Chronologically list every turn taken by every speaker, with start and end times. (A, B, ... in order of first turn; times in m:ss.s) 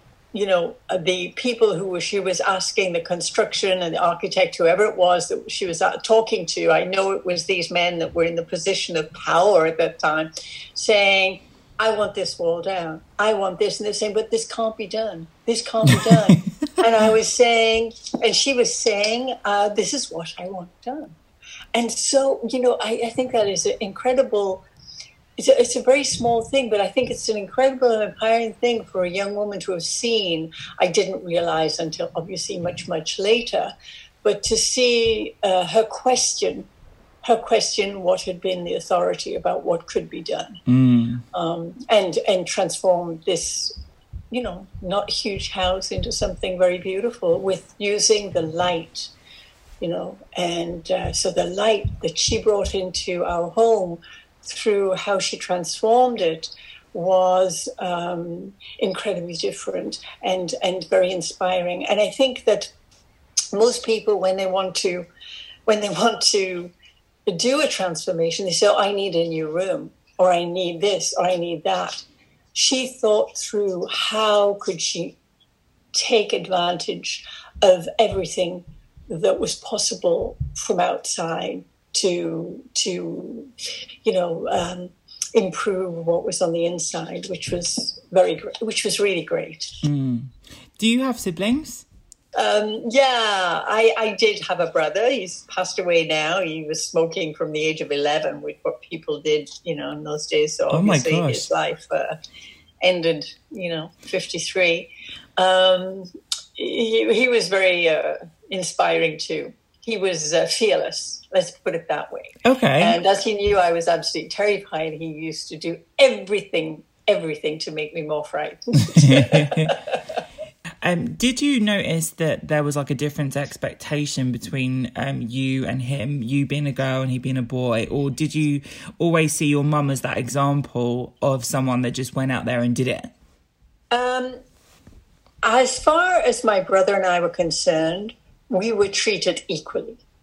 0:00.3-0:21.2 A
0:15.9-0:16.3 B
0:21.7-0:24.6 A
0:25.4-0:33.7 A
0:34.2-0:36.7 A
0:37.2-0:40.6 A
0:40.7-0:41.2 B
0:41.3-0:43.8 A
0:44.3-0:49.1 A
0:49.8-1:02.7 A
1:03.5-1:05.1 A
1:05.7-1:06.7 A
1:07.3-1:15.2 A
1:15.9-1:23.5 A
1:24.0-1:29.8 A
1:29.8-1:31.9 B
1:32.4-1:42.2 A
1:40.7-1:41.5 B
1:42.8-2:00.2 A
1:52.4-1:53.0 B
1:59.0-1:59.8 B
2:00.8-2:13.1 B
2:13.9-2:14.4 A
2:15.4-2:20.0 A